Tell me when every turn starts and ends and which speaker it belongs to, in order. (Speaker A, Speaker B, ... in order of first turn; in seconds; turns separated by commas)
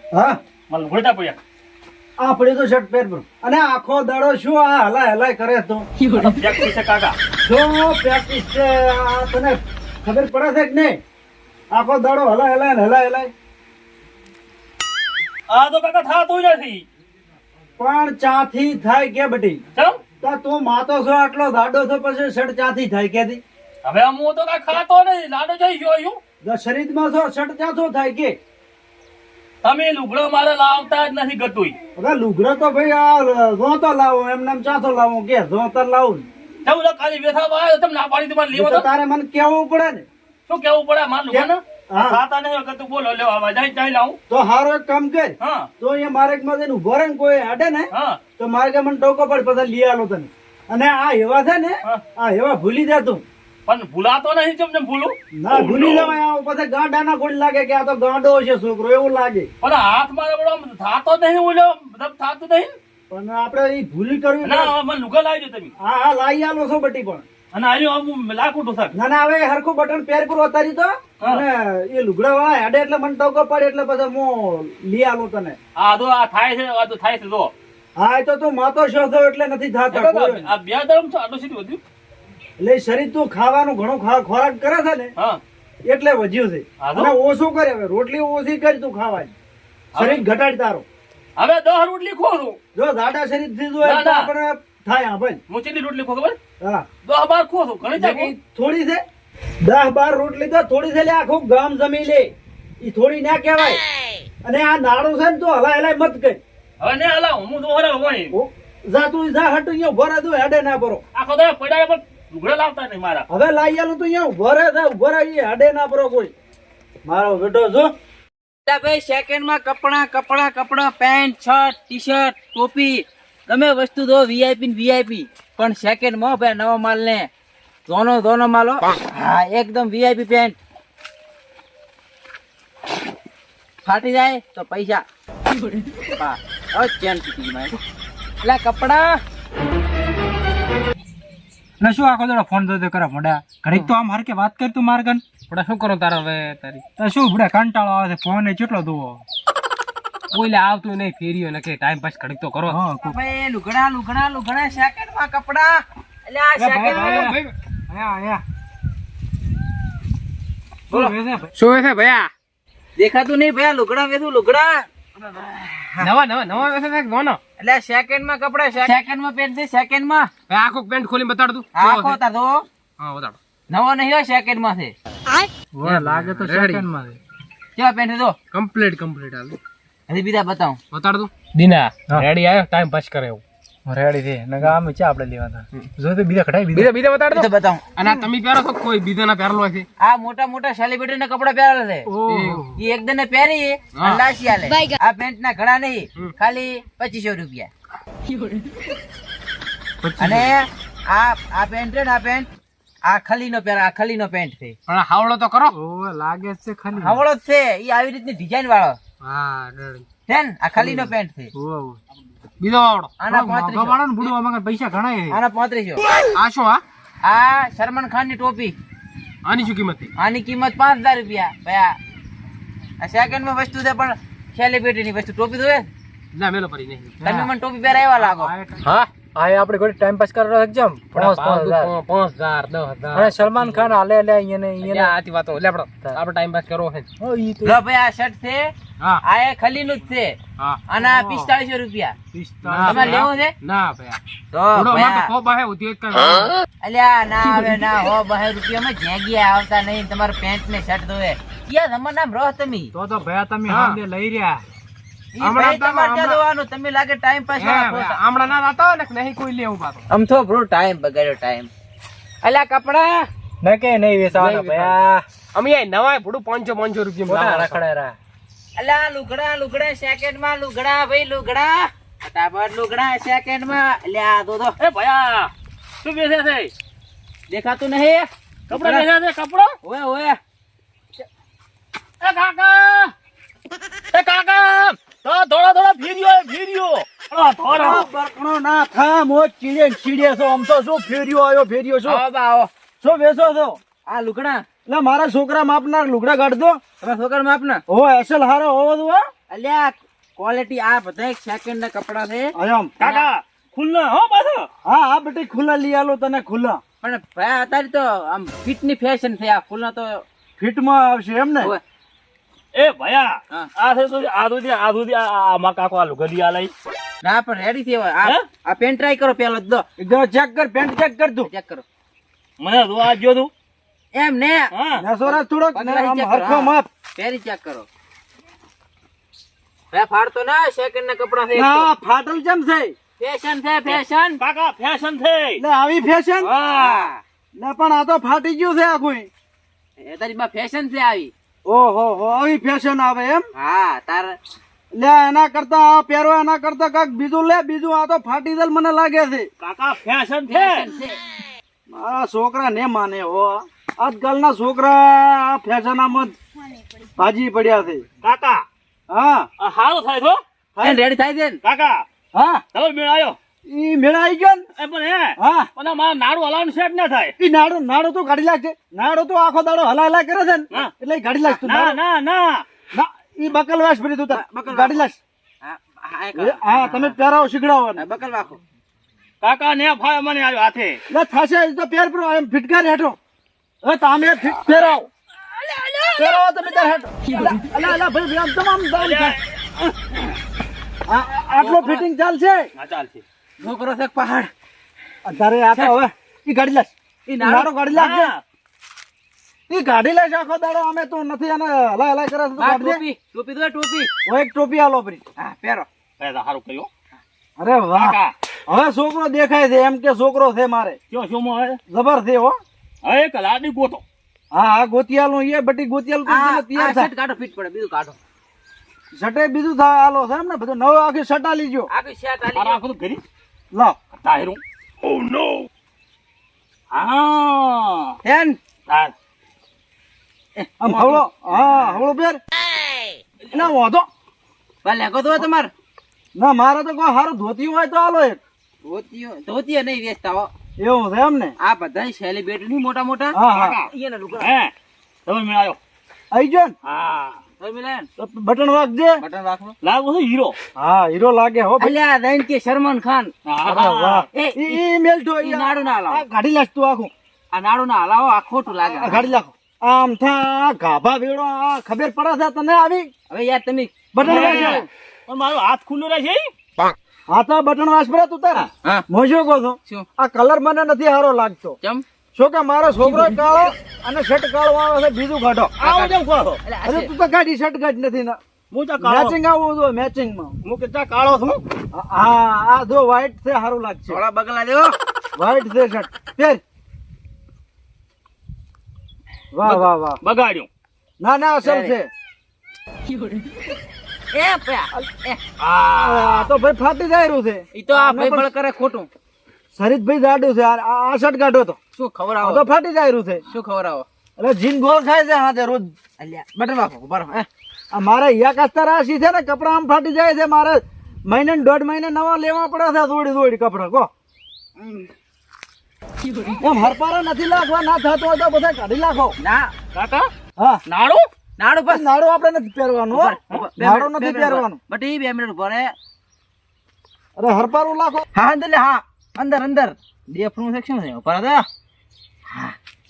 Speaker A: 0.7-1.4, Speaker B: 2.2-5.9, Speaker A: 6.2-7.2, Speaker B: 7.4-11.0, Speaker B: 11.7-13.3, Speaker A: 15.5-16.9, Speaker B: 17.8-19.6, Speaker B: 20.2-23.4, Speaker A: 23.8-26.2, Speaker B: 26.4-28.4, Speaker A: 29.6-31.8, Speaker B: 32.0-36.2, Speaker A: 36.6-38.9, Speaker B: 38.5-40.1, Speaker A: 40.5-44.2, Speaker B: 41.3-42.2, Speaker B: 44.3-53.2, Speaker A: 45.4-45.7, Speaker A: 47.9-48.2, Speaker A: 53.7-56.2, Speaker B: 55.3-59.5, Speaker A: 59.6-62.7, Speaker B: 63.1-64.7, Speaker A: 64.4-65.7, Speaker B: 65.8-67.2, Speaker A: 67.5-68.9, Speaker B: 68.9-75.6, Speaker A: 75.8-77.5, Speaker B: 78.0-80.5, Speaker A: 79.9-81.8, Speaker B: 82.6-85.1, Speaker B: 85.8-89.3, Speaker A: 86.8-87.2, Speaker A: 89.9-90.3, Speaker B: 90.0-90.8, Speaker A: 91.4-92.6, Speaker B: 92.8-95.4, Speaker A: 93.8-94.3, Speaker A: 95.5-96.4, Speaker B: 96.6-96.9, Speaker A: 97.0-98.3, Speaker B: 98.0-99.0, Speaker B: 99.6-103.8, Speaker B: 104.4-106.4, Speaker A: 106.8-108.3, Speaker B: 108.3-111.0, Speaker A: 111.2-113.2, Speaker B: 113.3-116.3, Speaker B: 117.1-117.9, Speaker C: 118.7-127.3, Speaker C: 127.9-130.6, Speaker C: 133.8-135.0, Speaker C: 136.2-137.8, Speaker C: 138.4-139.2, Speaker B: 141.8-145.2, Speaker D: 143.4-143.9, Speaker E: 145.5-146.8, Speaker B: 147.0-149.2, Speaker E: 150.3-152.8, Speaker B: 152.7-153.2, Speaker C: 153.0-157.3, Speaker B: 156.6-157.4, Speaker B: 157.9-158.4, Speaker B: 160.9-161.5, Speaker E: 161.5-162.3, Speaker C: 163.0-166.1, Speaker E: 166.0-167.4, Speaker C: 167.6-170.3, Speaker E: 170.5-172.2, Speaker C: 171.8-172.7, Speaker E: 173.0-173.4, Speaker C: 173.7-174.9, Speaker D: 175.8-177.2, Speaker E: 175.8-176.9, Speaker C: 177.8-178.4, Speaker E: 178.5-179.6, Speaker C: 180.1-180.8, Speaker E: 180.9-183.4, Speaker D: 183.9-186.8, Speaker B: 184.5-185.6, Speaker B: 186.2-186.8, Speaker E: 186.7-187.5, Speaker C: 187.3-187.8, Speaker E: 188.0-189.9, Speaker C: 190.0-192.1, Speaker D: 192.1-192.7, Speaker E: 192.2-192.7, Speaker C: 192.8-197.7, Speaker D: 200.0-200.5, Speaker C: 200.2-202.5, Speaker C: 203.1-204.8, Speaker E: 204.9-205.8, Speaker D: 205.7-207.2, Speaker C: 206.9-209.0, Speaker E: 209.2-210.1, Speaker C: 210.3-211.5, Speaker D: 211.6-212.0, Speaker E: 212.6-213.7, Speaker C: 213.2-214.0, Speaker D: 213.6-215.3, Speaker B: 213.9-214.3, Speaker C: 215.3-216.0, Speaker E: 216.3-216.8, Speaker C: 217.2-218.8, Speaker E: 219.4-220.1, Speaker C: 220.2-221.9, Speaker C: 223.0-225.9, Speaker E: 226.3-227.4, Speaker C: 227.2-228.5, Speaker D: 228.2-228.7, Speaker E: 228.8-229.3, Speaker D: 229.2-231.9, Speaker E: 231.0-234.0, Speaker D: 233.2-235.1, Speaker E: 234.8-237.1, Speaker D: 237.2-237.7, Speaker C: 237.6-240.4, Speaker C: 240.9-242.2, Speaker B: 242.4-243.2, Speaker E: 242.6-244.2, Speaker D: 242.7-243.2, Speaker C: 242.8-243.5, Speaker C: 244.5-245.3, Speaker E: 244.8-246.5, Speaker C: 246.8-252.9, Speaker D: 252.9-254.6, Speaker B: 253.4-253.9, Speaker E: 253.7-254.0, Speaker C: 255.3-258.2, Speaker E: 255.4-256.4, Speaker E: 257.6-260.1, Speaker C: 260.1-261.7, Speaker C: 262.4-263.3, Speaker D: 263.6-265.2, Speaker E: 264.3-267.9, Speaker D: 267.3-268.1, Speaker C: 268.8-274.8, Speaker A: 274.8-276.7, Speaker C: 277.5-279.1, Speaker A: 278.7-279.7, Speaker C: 279.8-280.4, Speaker A: 282.2-283.1, Speaker A: 284.1-288.1, Speaker B: 287.7-292.2, Speaker C: 292.1-292.7, Speaker B: 293.0-293.8, Speaker C: 294.1-294.6, Speaker B: 294.9-296.8, Speaker C: 297.0-297.8, Speaker B: 297.9-299.2, Speaker C: 299.5-303.3, Speaker B: 302.6-303.0, Speaker A: 303.0-304.7, Speaker B: 304.9-306.8, Speaker C: 307.0-310.2, Speaker B: 310.6-311.7, Speaker A: 312.8-316.7, Speaker C: 317.2-319.9, Speaker B: 320.0-321.5, Speaker C: 321.5-321.8, Speaker A: 322.6-323.5, Speaker C: 324.1-324.7, Speaker A: 324.7-325.0, Speaker B: 325.0-326.9, Speaker C: 325.2-327.9, Speaker C: 329.9-331.9, Speaker B: 331.5-332.9, Speaker C: 333.2-334.4, Speaker A: 333.9-335.6, Speaker B: 335.6-336.5, Speaker A: 336.4-337.1, Speaker C: 336.7-337.2, Speaker B: 337.6-339.3, Speaker C: 340.0-341.3, Speaker B: 341.7-343.5, Speaker C: 343.6-344.4, Speaker B: 344.9-349.5, Speaker A: 349.6-350.9, Speaker C: 350.5-351.2, Speaker B: 351.9-356.4, Speaker B: 357.2-358.0, Speaker A: 358.2-358.6, Speaker B: 359.1-359.5, Speaker A: 359.6-360.4, Speaker C: 360.8-361.6, Speaker A: 361.6-362.1, Speaker B: 362.3-362.6, Speaker A: 362.7-363.4, Speaker B: 363.7-364.7, Speaker A: 364.8-367.3, Speaker B: 365.4-365.7, Speaker B: 367.4-372.0, Speaker A: 371.6-372.6, Speaker B: 372.9-375.2, Speaker C: 374.3-375.1, Speaker C: 375.6-377.2, Speaker B: 376.4-378.0, Speaker C: 378.0-378.6, Speaker A: 379.4-381.0, Speaker B: 381.1-383.2, Speaker B: 383.8-385.1, Speaker C: 385.5-386.4, Speaker B: 386.2-389.4, Speaker A: 389.0-389.4, Speaker B: 391.1-392.7, Speaker C: 391.5-392.0, Speaker A: 392.8-393.2, Speaker C: 393.6-394.5, Speaker B: 395.2-398.3, Speaker C: 397.3-397.7, Speaker A: 397.9-398.4, Speaker B: 399.7-403.0, Speaker C: 402.6-404.1, Speaker B: 404.3-405.2, Speaker C: 405.4-405.9, Speaker A: 406.2-406.9, Speaker B: 407.6-411.0, Speaker A: 407.9-408.3, Speaker A: 411.1-411.8, Speaker B: 411.9-412.6, Speaker A: 413.0-414.0, Speaker B: 414.5-417.1, Speaker C: 416.3-418.2, Speaker B: 419.1-421.9, Speaker C: 421.9-422.8, Speaker A: 422.5-423.2, Speaker A: 424.1-424.6, Speaker A: 426.9-428.2, Speaker C: 428.2-428.6, Speaker C: 430.6-431.2, Speaker B: 430.8-432.4, Speaker B: 433.5-434.1, Speaker C: 434.8-435.7, Speaker B: 436.4-438.4, Speaker C: 438.8-440.5, Speaker B: 440.8-441.6, Speaker C: 441.6-444.5, Speaker B: 443.3-443.8, Speaker A: 443.5-444.7, Speaker A: 445.3-445.8, Speaker B: 446.3-446.8, Speaker A: 446.9-447.4, Speaker C: 447.6-448.1, Speaker B: 448.2-449.2, Speaker C: 449.2-449.8, Speaker A: 449.8-450.6, Speaker B: 450.8-451.9, Speaker C: 451.8-453.3, Speaker A: 453.5-454.3, Speaker B: 453.6-457.1, Speaker C: 454.3-454.8, Speaker C: 455.4-456.2, Speaker C: 457.5-459.3, Speaker B: 458.8-463.1, Speaker C: 463.3-464.9, Speaker B: 464.1-464.9, Speaker A: 464.2-466.4, Speaker B: 467.3-471.8, Speaker C: 468.7-469.1, Speaker B: 472.4-475.8, Speaker A: 475.8-476.6, Speaker C: 475.8-477.1, Speaker B: 476.9-478.4, Speaker A: 478.7-479.4, Speaker B: 479.0-480.6, Speaker A: 480.6-481.6, Speaker B: 481.9-484.2, Speaker C: 484.1-485.0, Speaker B: 485.4-486.6, Speaker B: 489.5-490.2, Speaker A: 489.6-490.7, Speaker B: 491.2-492.1, Speaker C: 491.6-491.9, Speaker D: 493.1-493.4, Speaker C: 494.3-495.4, Speaker A: 495.6-496.5, Speaker B: 496.0-498.5, Speaker C: 497.7-499.1, Speaker B: 499.7-501.8, Speaker C: 502.0-502.7, Speaker B: 502.4-503.4, Speaker C: 503.5-504.1, Speaker B: 504.4-505.9, Speaker C: 506.2-507.5, Speaker B: 507.9-514.1, Speaker C: 514.8-515.1, Speaker B: 516.6-519.4, Speaker C: 519.4-519.7, Speaker A: 520.0-520.3, Speaker B: 520.6-520.8, Speaker A: 520.9-521.2, Speaker C: 521.6-522.1, Speaker B: 521.9-524.8, Speaker C: 523.1-525.9, Speaker B: 527.4-528.3, Speaker C: 528.3-531.6, Speaker C: 532.5-532.8